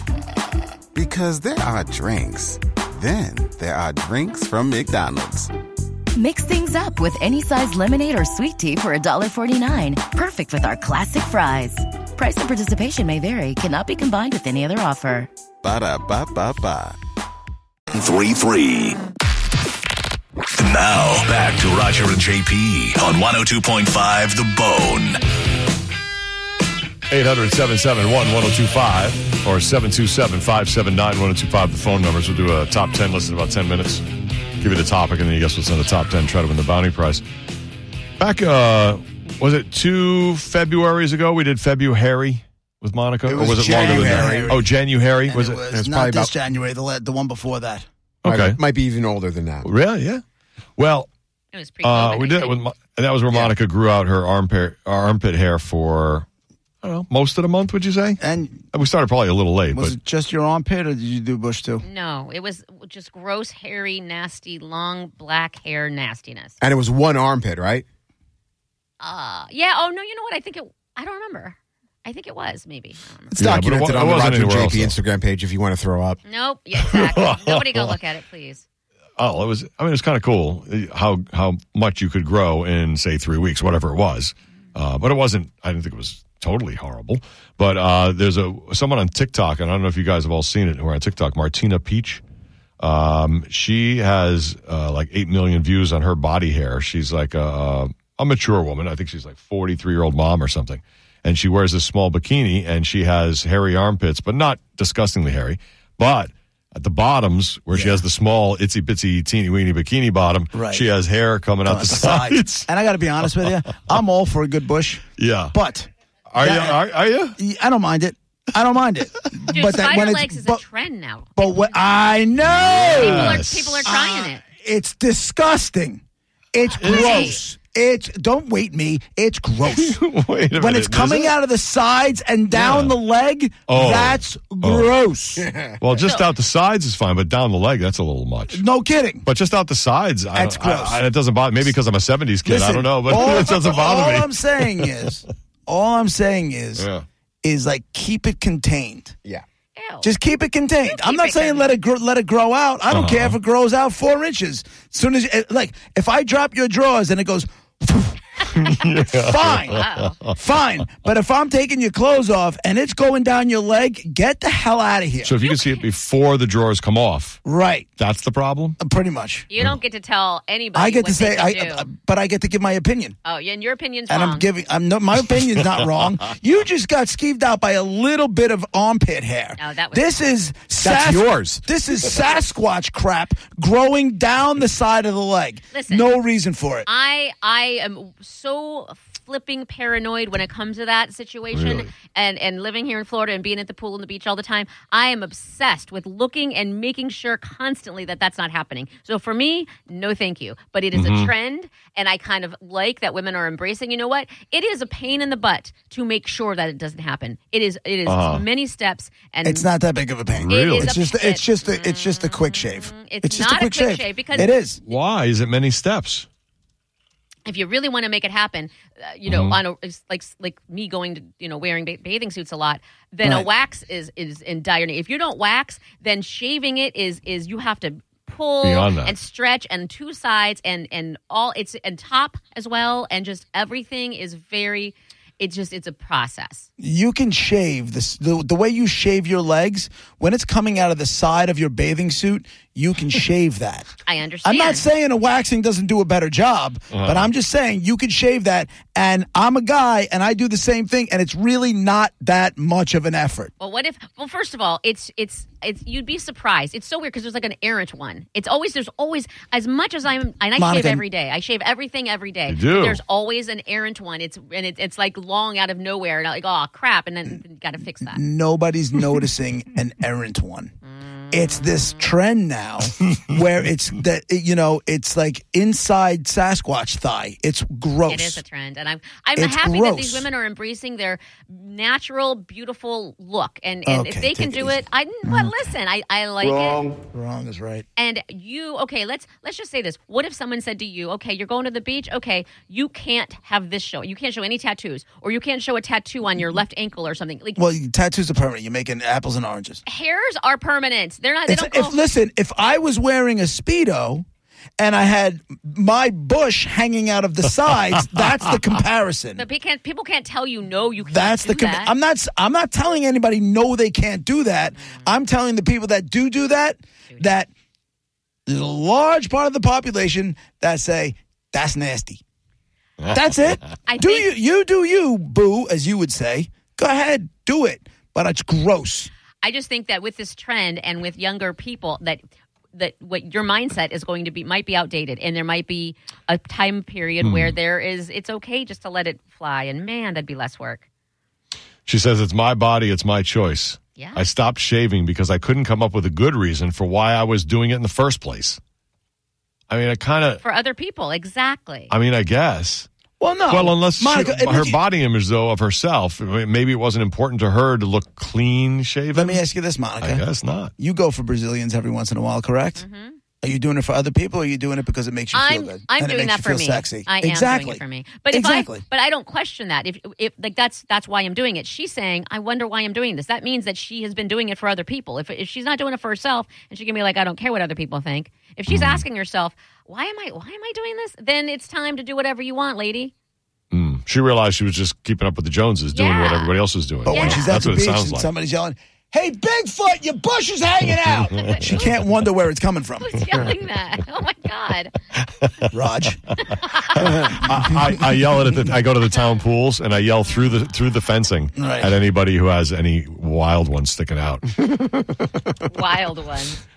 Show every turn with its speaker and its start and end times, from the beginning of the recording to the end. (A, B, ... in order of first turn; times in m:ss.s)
0:00.9-0:05.5 A
0:06.2-0:15.3 B
0:15.6-0:17.0 A
0:17.9-0:19.0 C
0:20.5-0:25.2 C
0:27.1-0:34.0 D
0:34.6-0:37.2 D
0:38.2-0:45.6 D
0:43.2-0:47.8 E
0:43.3-0:44.6 F
0:45.7-0:46.3 F
0:48.2-0:48.6 D
0:48.2-0:49.7 F
0:49.6-0:50.2 D
0:50.8-0:51.1 D
0:51.5-0:52.6 G
0:51.8-0:56.2 D
0:56.8-1:00.0 D
0:58.2-0:58.6 E
0:59.7-1:01.8 E
1:01.8-1:06.6 G
1:06.6-1:07.8 F
1:09.0-1:13.3 G
1:13.3-1:16.2 F
1:13.4-1:15.0 D
1:16.2-1:18.6 G
1:16.8-1:18.0 D
1:19.2-1:32.2 D
1:32.8-1:52.7 D
1:47.7-1:48.0 E
1:50.5-1:50.9 E
1:51.6-1:56.8 E
1:53.2-1:54.0 D
1:55.2-1:55.6 D
1:56.3-1:57.4 D
1:57.4-2:00.6 E
1:59.5-2:01.3 G
2:01.4-2:06.0 E
2:02.4-2:03.9 D
2:02.9-2:04.4 G
2:06.5-2:10.0 E
2:06.6-2:07.4 D
2:06.8-2:07.4 G
2:09.6-2:11.3 D
2:10.5-2:15.5 E
2:12.5-2:12.9 D
2:13.7-2:14.9 D
2:15.4-2:15.7 F
2:15.8-2:18.6 D
2:16.0-2:16.3 G
2:18.5-2:19.3 E
2:19.2-2:25.1 D
2:20.3-2:21.0 E
2:22.4-2:26.9 E
2:26.8-2:27.0 D
2:27.4-2:29.2 E
2:29.8-2:30.1 G
2:30.0-2:38.2 E
2:30.8-2:31.7 G
2:32.9-2:33.4 D
2:38.5-2:40.4 D
2:39.0-2:39.8 E
2:39.7-2:40.2 G
2:40.4-2:45.3 E
2:45.2-2:47.4 D
2:45.4-2:45.8 G
2:47.4-2:47.9 E
2:48.0-2:48.8 D
2:48.8-2:49.5 E
2:49.5-2:51.9 G
2:50.7-2:53.2 E
2:53.2-2:54.5 G
2:54.1-3:06.9 E
2:59.6-3:00.1 G
3:00.8-3:01.6 F
3:05.7-3:06.1 G
3:06.8-3:29.7 G
3:11.5-3:11.9 D
3:20.9-3:21.3 D
3:28.0-3:28.4 D
3:29.4-3:34.8 E
3:30.3-3:30.9 D
3:30.5-3:34.5 G
3:34.8-3:36.3 D
3:37.4-3:56.7 G
3:39.2-3:39.6 D
3:43.2-3:43.5 E
3:48.6-3:49.1 D
3:56.8-4:03.9 E
4:04.0-4:04.8 G
4:04.4-4:13.5 E
4:06.9-4:07.3 D
4:13.6-4:28.2 G
4:20.6-4:21.0 E
4:22.5-4:23.0 D
4:28.0-4:30.7 E
4:30.8-4:32.0 G
4:31.3-4:38.4 E
4:38.1-4:46.9 G
4:39.4-4:40.3 E
4:43.8-4:45.6 E
4:47.1-4:47.8 E
4:48.0-4:57.6 G
4:57.6-4:59.8 E
4:59.8-5:02.0 G
5:01.4-5:04.2 E
5:04.8-5:09.4 E
5:09.4-5:11.9 G
5:11.0-5:17.5 E
5:14.8-5:15.1 G
5:17.1-5:17.3 G
5:18.4-5:22.2 E
5:23.1-5:29.1 E
5:23.9-5:24.3 G
5:29.4-5:32.2 G
5:32.7-5:40.8 G
5:37.2-5:37.5 D
5:41.8-5:48.6 D
5:44.0-5:44.2 G
5:49.7-5:50.4 D
5:50.4-5:51.9 G
5:51.9-5:52.9 D
5:53.2-5:54.8 E
5:53.5-5:59.4 D
5:59.1-6:00.2 E
6:00.0-6:00.7 D
6:00.8-6:02.8 E
6:02.8-6:03.2 G
6:03.4-6:08.8 E
6:05.3-6:23.1 G
6:18.7-6:19.0 D
6:23.7-6:28.3 D
6:25.9-6:26.6 G
6:27.0-6:33.2 E
6:27.1-6:27.5 G
6:31.2-6:31.8 D
6:31.3-6:31.9 G
6:33.0-6:34.9 G
6:35.7-6:36.2 E
6:36.5-6:37.1 G
6:36.9-6:44.7 D
6:41.6-6:41.9 E
6:45.6-6:46.6 G